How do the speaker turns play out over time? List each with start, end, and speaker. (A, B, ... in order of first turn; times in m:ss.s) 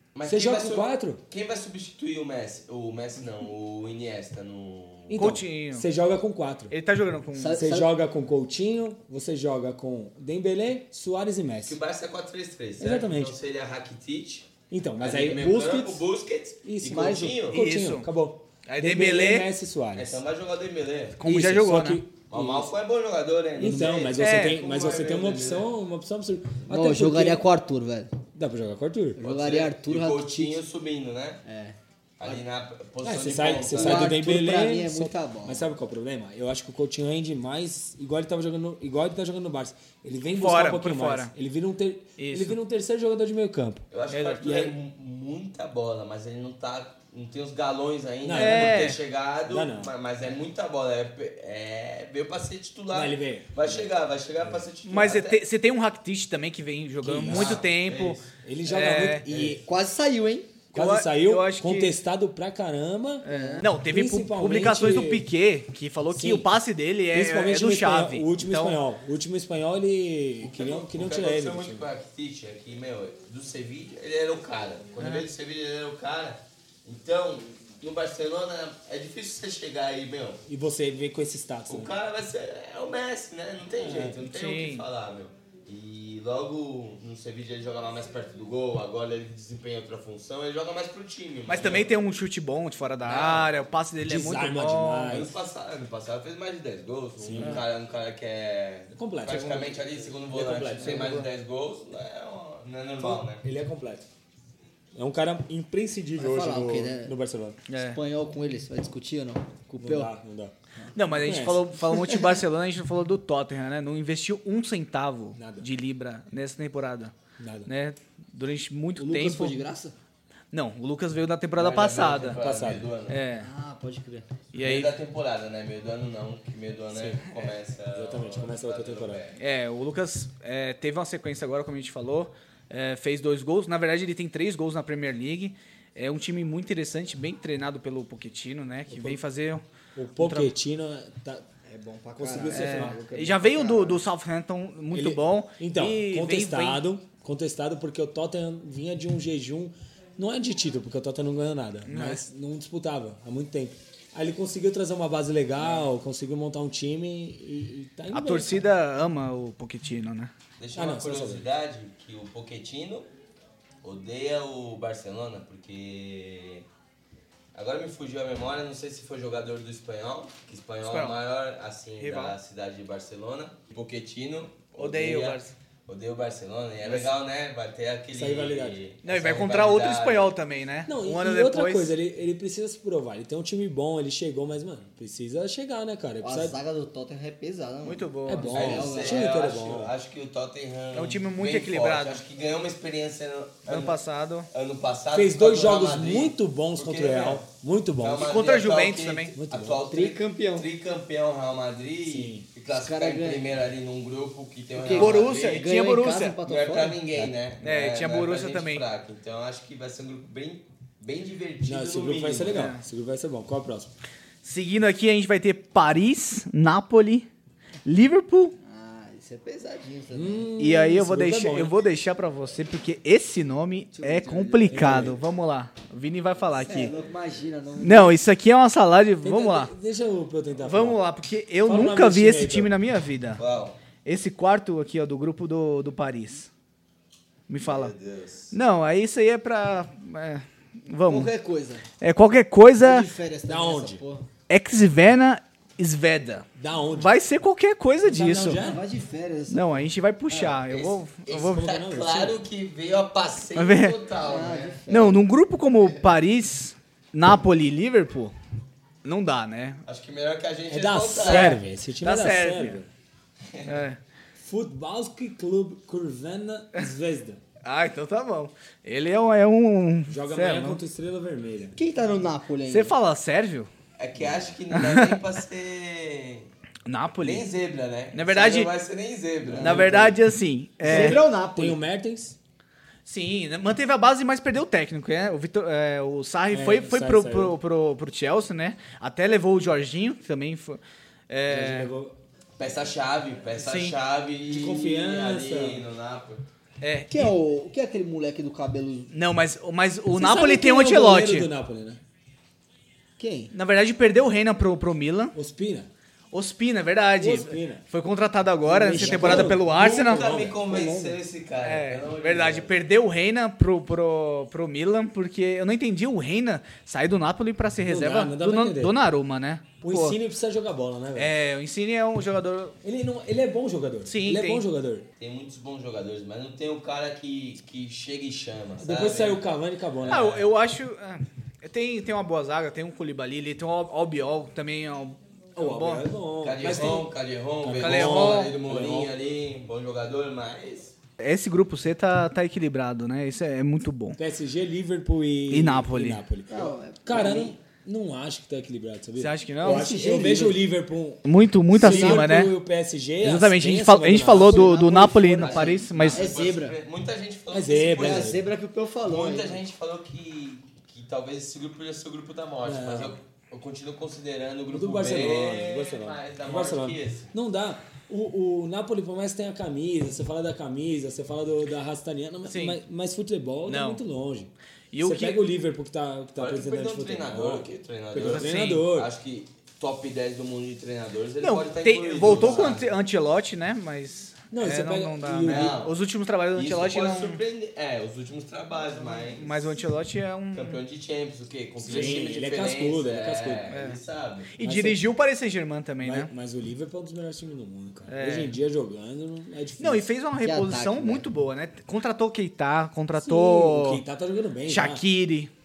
0:00.1-0:05.4 A
0:00.2-0:01.2 B
0:05.1-0:06.8 B
0:05.1-0:05.9 C
0:06.7-0:07.6 C
0:07.4-0:07.9 D
0:07.5-0:11.8 B
0:11.7-0:17.6 A
0:12.8-0:13.4 B
0:14.7-0:15.6 B
0:15.2-0:16.0 D
0:16.6-0:20.2 B
0:16.8-0:17.4 D
0:17.5-0:18.1 C
0:18.7-0:19.5 C
0:19.9-0:21.2 A
0:21.2-0:22.0 C
0:21.2-0:22.7 B
0:22.3-0:25.7 A
0:23.6-0:27.5 B
0:24.2-0:24.6 C
0:26.7-0:28.1 D
0:28.4-0:29.2 B
0:29.2-0:30.6 D
0:29.2-0:31.4 A
0:31.4-0:32.4 D
0:32.2-0:34.2 A
0:33.0-0:43.9 B
0:33.7-0:35.7 D
0:40.4-0:41.3 C
0:42.2-0:42.6 C
0:43.9-0:55.4 A
0:44.1-0:44.6 C
0:44.4-0:44.7 B
0:48.2-0:49.9 B
0:48.3-0:49.0 C
0:52.9-0:53.9 B
0:54.8-0:59.3 C
0:57.0-0:57.7 B
0:57.3-0:58.3 A
0:58.4-0:59.6 B
0:59.3-0:59.6 A
0:59.6-1:00.5 D
1:00.7-1:03.2 B
1:00.7-1:02.0 C
1:03.2-1:03.7 D
1:03.2-1:08.8 C
1:03.8-1:05.3 B
1:06.1-1:06.5 B
1:07.1-1:11.9 B
1:10.4-1:20.4 A
1:15.0-1:15.3 C
1:20.5-1:21.9 B
1:21.7-1:32.0 A
1:23.8-1:24.2 B
1:24.2-1:24.8 C
1:31.5-1:35.3 C
1:33.0-1:33.5 A
1:34.0-1:35.4 B
1:35.1-1:43.4 A
1:37.2-1:37.6 B
1:37.4-1:37.6 C
1:38.9-1:41.3 B
1:40.8-1:41.2 C
1:43.0-1:44.0 B
1:45.0-1:47.6 B
1:46.2-1:47.1 D
1:47.7-1:48.0 C
1:47.8-1:50.1 D
1:49.8-1:50.5 B
1:51.0-1:57.1 C
1:51.1-1:51.6 B
1:51.9-1:52.4 D
1:55.4-1:55.7 B
1:57.4-1:57.7 B
1:57.7-1:59.6 C
1:59.0-1:59.9 D
2:00.5-2:02.4 C
2:01.6-2:03.2 A
2:02.3-2:02.9 B
2:03.1-2:03.5 C
2:03.3-2:04.3 D
2:04.5-2:04.9 C
2:04.6-2:09.4 A
2:06.9-2:07.2 B
2:07.9-2:09.2 B
2:09.4-2:19.6 C
2:18.9-2:19.2 B
2:20.0-2:21.5 B
2:20.2-2:20.5 C
2:21.7-2:24.0 D
2:22.2-2:23.6 B
2:22.5-2:26.8 C
2:24.9-2:38.7 B
2:31.9-2:32.2 C
2:38.1-2:40.3 C
2:40.6-2:43.1 A
2:40.8-2:41.5 B
2:43.8-2:46.7 A
2:47.5-3:00.3 A
2:50.8-2:51.2 C
2:52.0-2:52.4 C
2:54.8-2:55.5 C
2:56.8-2:57.1 B
2:58.1-2:58.8 B
2:59.0-3:02.0 C
3:00.9-3:06.6 B
3:06.2-3:09.3 D
3:07.8-3:08.6 C
3:08.3-3:09.9 B
3:08.5-3:14.0 A
3:10.9-3:12.2 C
3:13.7-3:14.5 C
3:14.5-3:17.4 A
3:15.1-3:18.4 B
3:18.0-3:25.7 A
3:18.2-3:19.4 C
3:19.4-3:19.8 B
3:19.9-3:20.7 D
3:22.1-3:22.5 B
3:22.7-3:23.5 D
3:24.8-3:27.0 D
3:24.9-3:26.4 C
3:26.4-3:32.7 A
3:27.6-3:28.8 C
3:31.6-3:33.9 B
3:32.5-3:32.8 C
3:34.4-3:37.3 C
3:37.8-3:38.6 C
3:38.6-3:40.5 D
3:40.1-3:41.8 B
3:40.6-3:46.9 C
3:44.0-3:44.9 D
3:44.7-3:45.2 B
3:46.7-3:48.2 D
3:47.8-3:49.7 C
3:49.2-3:51.0 B
3:50.6-3:53.4 C
3:51.6-3:52.8 B
3:53.4-3:53.8 A
3:54.0-3:56.5 C
3:57.5-3:57.9 C
3:57.6-3:58.5 A
3:58.5-4:01.3 C
4:01.1-4:01.8 D
4:02.0-4:03.1 C
4:02.8-4:04.3 D
4:03.5-4:04.0 B
4:04.5-4:08.6 C
4:06.6-4:07.1 B
4:08.0-4:08.8 B
4:08.6-4:09.9 D
4:09.5-4:11.7 C
4:10.3-4:14.8 A
4:11.4-4:12.4 B
4:13.6-4:14.0 C
4:14.2-4:15.2 D
4:14.9-4:18.4 C
4:19.0-4:19.8 C
4:19.9-4:21.6 A
4:20.7-4:22.9 B
4:21.2-4:22.8 C
4:23.5-4:23.8 A
4:23.7-4:24.0 C
4:24.4-4:27.4 B
4:27.6-4:30.8 C
4:30.1-4:31.8 B
4:31.8-4:32.9 D
4:32.7-4:33.7 C
4:34.0-4:36.5 A
4:34.7-4:35.2 C
4:36.9-4:37.5 C
4:37.2-4:40.1 A
4:38.1-4:38.7 C
4:39.5-4:40.2 B
4:39.6-4:41.2 C
4:40.8-4:42.4 B
4:40.8-4:41.8 D
4:43.1-4:51.9 C
4:46.5-4:47.6 B
4:51.5-4:52.2 B
4:52.6-4:56.5 A
4:53.6-4:54.0 C
4:54.5-4:55.8 B
4:56.8-4:57.3 C
4:57.1-4:59.1 D
4:59.1-5:01.5 C
5:00.1-5:02.0 B
5:03.2-5:03.5 D
5:03.5-5:05.4 C
5:05.3-5:05.9 B
5:06.3-5:10.5 C
5:07.2-5:07.8 B
5:08.7-5:10.6 B
5:08.8-5:09.5 D
5:09.2-5:12.8 A
5:10.6-5:11.2 D
5:11.6-5:20.2 C
5:17.8-5:19.0 B
5:19.8-5:21.3 B
5:21.2-5:22.8 C
5:22.8-5:25.1 B
5:24.1-5:24.6 C
5:25.2-5:29.4 A
5:28.8-5:30.4 B
5:30.0-5:30.5 A
5:30.1-5:36.1 C
5:35.6-5:39.1 B
5:36.4-5:41.0 A
5:36.6-5:37.0 C
5:37.8-5:38.6 C
5:41.2-5:44.2 C
5:44.2-5:55.1 B
5:45.5-5:46.2 C
5:46.5-5:47.6 D
5:49.2-5:50.0 C
5:49.6-5:50.6 D
5:51.2-5:52.6 C
5:51.8-5:52.3 D
5:53.2-5:56.3 C
5:54.3-5:56.8 D
5:55.4-5:58.4 A
5:57.5-5:58.4 B
5:57.9-5:59.6 D
5:59.0-6:07.3 A
6:02.6-6:03.2 B
6:04.7-6:14.5 B
6:12.5-6:12.8 C
6:13.7-6:14.0 C
6:14.9-6:15.4 C
6:15.0-6:19.1 B
6:16.4-6:22.9 A
6:18.2-6:18.9 C
6:21.4-6:27.4 C
6:22.2-6:22.8 B
6:24.5-6:25.8 B
6:25.4-6:26.0 A
6:26.6-6:29.8 A
6:28.9-6:30.8 C
6:30.5-6:34.5 A
6:31.8-6:33.7 B
6:33.7-6:34.0 C
6:34.5-6:36.3 C
6:34.6-6:35.0 B
6:36.0-6:40.1 B
6:38.1-6:38.6 C
6:39.8-6:44.0 C
6:40.4-6:41.3 D
6:43.2-6:45.0 B
6:44.7-6:45.5 C